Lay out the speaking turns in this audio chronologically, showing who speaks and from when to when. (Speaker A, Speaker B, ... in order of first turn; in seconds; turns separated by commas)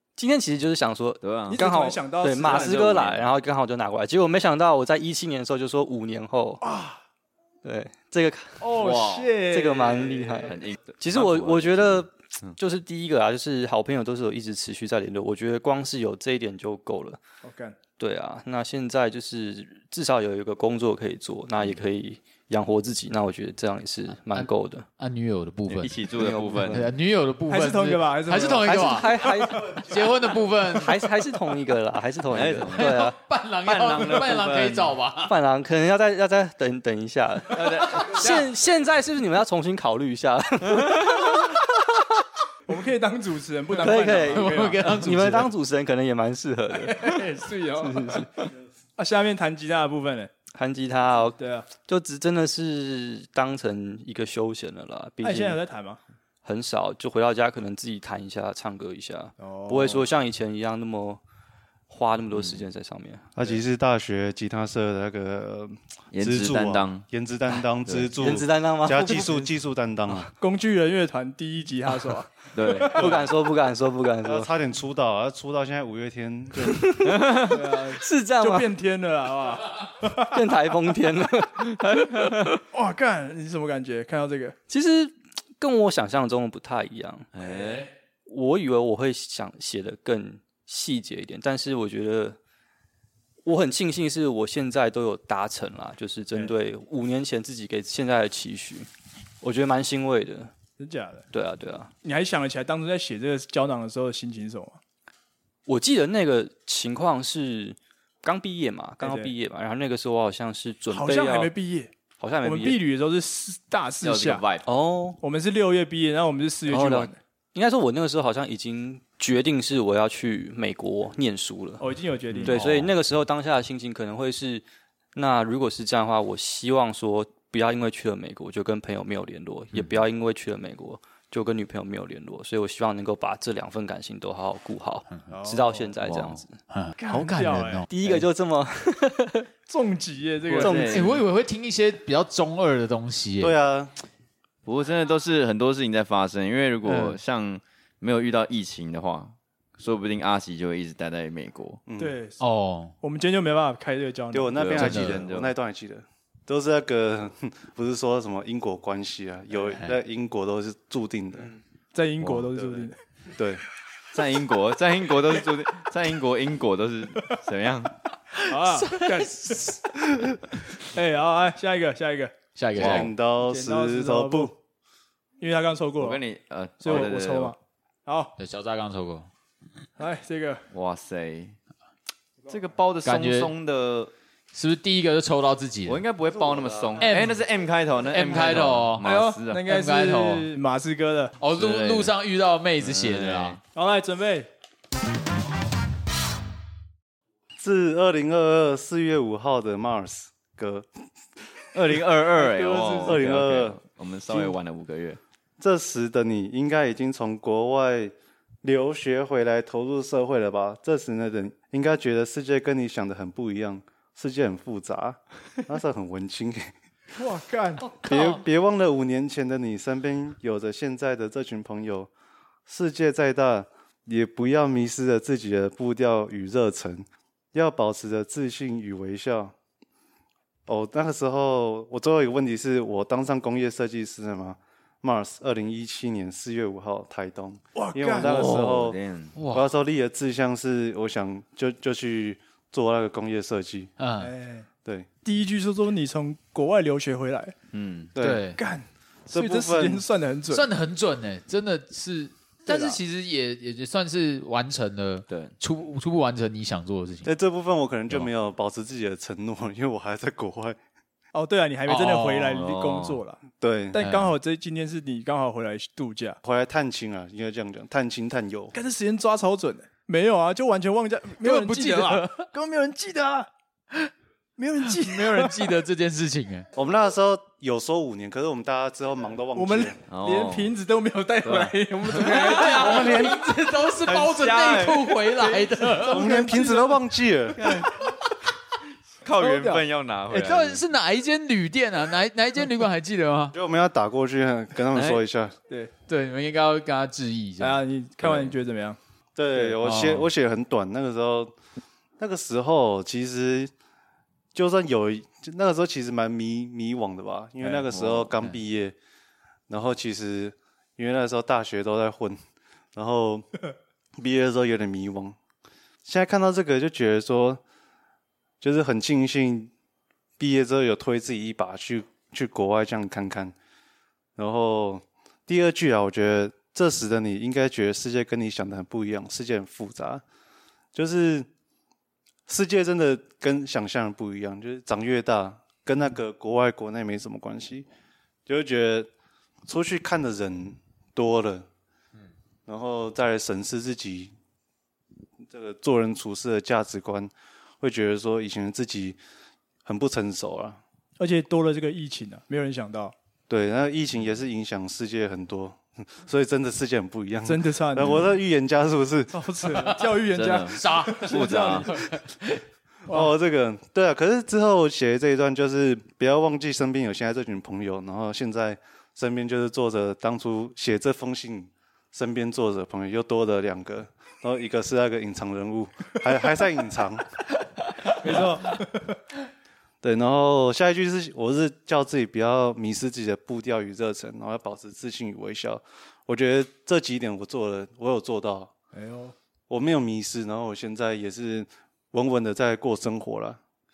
Speaker A: 0.2-6.6, Speaker B: 1.2-1.6, Speaker C: 1.5-2.9, Speaker B: 2.4-3.3, Speaker C: 6.6-7.0, Speaker A: 7.6-8.7, Speaker C: 8.6-10.5, Speaker B: 8.8-9.3, Speaker A: 9.5-17.2, Speaker B: 10.5-12.5, Speaker C: 17.4-17.8, Speaker A: 18.0-24.9, Speaker D: 25.0-26.0, Speaker B: 25.7-26.9, Speaker A: 26.2-26.9, Speaker D: 26.7-31.1, Speaker C: 27.5-29.6, Speaker A: 28.6-30.0, Speaker A: 30.7-33.2, Speaker B: 32.3-33.1, Speaker D: 32.8-35.3, Speaker B: 33.6-35.0, Speaker A: 35.2-42.2, Speaker B: 37.5-38.5, Speaker C: 38.1-38.3, Speaker B: 40.7-41.3, Speaker C: 42.7-45.2, Speaker A: 43.8-47.2, Speaker D: 44.3-45.5, Speaker C: 46.8-48.5, Speaker A: 47.8-48.3, Speaker C: 49.0-50.3, Speaker A: 50.5-55.6, Speaker C: 51.4-51.7, Speaker C: 55.2-56.0, Speaker A: 56.5-61.2, Speaker C: 59.4-60.1, Speaker A: 61.9-63.4, Speaker B: 62.3-62.6, Speaker E: 63.4-70.3, Speaker B: 66.1-67.0, Speaker B: 67.8-68.2, Speaker A: 68.2-69.5, Speaker C: 70.3-73.2, Speaker B: 72.5-73.2, Speaker A: 72.9-74.5, Speaker E: 74.2-76.9, Speaker A: 76.7-78.7, Speaker B: 77.0-77.6, Speaker C: 77.5-80.4, Speaker A: 80.3-82.3, Speaker B: 81.8-82.5, Speaker C: 82.6-84.6, Speaker A: 84.7-92.4, Speaker B: 87.3-87.9, Speaker A: 93.5-98.9, Speaker A: 99.4-100.5, Speaker C: 100.8-101.3, Speaker A: 101.3-101.9, Speaker C: 102.0-104.8, Speaker A: 105.7-111.5, Speaker C: 109.0-109.3, Speaker C: 110.9-111.9, Speaker A: 112.2-112.8, Speaker C: 112.4-114.4, Speaker B: 114.0-114.7, Speaker A: 114.7-115.2, Speaker C: 115.2-117.2, Speaker A: 116.7-121.8, Speaker C: 121.8-122.7, Speaker B: 122.3-122.7, Speaker A: 122.4-136.6, Speaker C: 135.3-135.9, Speaker D: 136.7-137.9, Speaker C: 137.0-137.9, Speaker A: 137.9-139.5, Speaker C: 139.7-141.1, Speaker B: 140.5-141.2, Speaker A: 140.6-140.9, Speaker D: 140.7-143.6, Speaker E: 143.4-143.9, Speaker B: 144.7-151.8, Speaker E: 151.9-152.2, Speaker C: 152.0-152.4, Speaker D: 152.4-152.9, Speaker C: 153.0-154.9, Speaker E: 154.3-161.5, Speaker B: 154.6-155.5, Speaker D: 154.8-155.2, Speaker C: 161.9-163.0, Speaker B: 162.2-162.5, Speaker E: 162.5-163.6, Speaker B: 164.1-167.9, Speaker C: 168.4-169.8, Speaker D: 168.5-169.8, Speaker C: 170.8-172.3, Speaker D: 172.6-173.1, Speaker E: 172.8-174.6, Speaker B: 172.8-173.1, Speaker C: 173.4-174.5, Speaker C: 175.4-176.2, Speaker B: 176.0-177.6, Speaker C: 176.8-178.3, Speaker D: 178.4-179.3, Speaker C: 180.0-180.7, Speaker B: 180.7-181.6, Speaker B: 182.5-184.1, Speaker D: 183.1-183.5, Speaker D: 184.5-186.0, Speaker B: 185.9-189.6, Speaker D: 187.0-187.4, Speaker D: 188.1-189.1, Speaker C: 189.0-191.4, Speaker D: 189.7-190.5, Speaker D: 191.4-193.6, Speaker B: 191.6-192.1, Speaker B: 192.8-193.6, Speaker C: 193.7-194.5, Speaker E: 197.6-200.9, Speaker B: 201.7-205.2, Speaker C: 202.3-203.3, Speaker E: 203.0-203.8, Speaker E: 204.3-204.6, Speaker E: 205.6-216.7, Speaker C: 217.2-218.1, Speaker E: 218.0-222.1, Speaker E: 222.7-229.5, Speaker E: 230.7-239.0, Speaker C: 237.8-238.6, Speaker B: 238.3-239.3, Speaker D: 239.4-239.7, Speaker E: 239.5-243.9, Speaker D: 244.0-244.3, Speaker C: 244.2-244.7, Speaker C: 245.2-247.6, Speaker B: 247.7-248.1, Speaker E: 248.2-248.4, Speaker D: 248.2-248.6, Speaker C: 248.6-250.7, Speaker E: 249.3-250.1, Speaker D: 250.5-257.3, Speaker C: 252.7-253.0, Speaker B: 255.3-255.6, Speaker E: 257.2-260.8, Speaker C: 261.3-263.4, Speaker D: 261.9-262.6, Speaker B: 262.5-263.2, Speaker E: 263.6-264.0, Speaker C: 263.9-266.4, Speaker D: 264.0-264.4, Speaker E: 266.4-268.8, Speaker C: 268.7-273.5, Speaker D: 271.4-272.5, Speaker C: 274.6-275.7, Speaker D: 274.9-276.7, Speaker E: 276.7-280.0, Speaker C: 279.6-283.3, Speaker B: 280.1-280.7, Speaker B: 281.4-281.7, Speaker D: 282.1-286.3, Speaker E: 282.6-283.4, Speaker B: 284.1-285.6, Speaker C: 285.8-287.0, Speaker E: 286.0-287.6, Speaker B: 287.6-288.0, Speaker B: 289.2-290.8, Speaker C: 289.4-289.8, Speaker D: 290.3-293.6, Speaker E: 293.5-295.6, Speaker B: 294.9-295.2, Speaker D: 296.1-297.8, Speaker C: 297.6-299.0, Speaker E: 299.4-301.5, Speaker D: 299.8-300.3, Speaker E: 302.2-303.7, Speaker E: 304.5-309.0, Speaker B: 307.9-308.3, Speaker E: 309.7-312.4, Speaker E: 312.9-313.5, Speaker E: 314.2-315.4, Speaker E: 316.1-317.6, Speaker E: 318.6-319.7, Speaker E: 320.4-323.6, Speaker E: 324.4-330.2, Speaker E: 330.9-331.5, Speaker E: 332.5-337.9, Speaker E: 338.5-339.1, Speaker E: 339.7-341.7, Speaker E: 342.7-344.3, Speaker E: 345.4-349.2, Speaker E: 349.9-350.8, Speaker C: 351.2-353.1, Speaker E: 353.5-359.5, Speaker C: 357.5-358.3, Speaker C: 359.3-362.2, Speaker D: 359.7-360.2, Speaker B: 360.3-361.9, Speaker D: 360.7-362.6, Speaker E: 363.1-377.3, Speaker C: 378.2-379.2, Speaker E: 380.0-388.7, Speaker C: 388.9-389.4, Speaker E: 389.7-393.6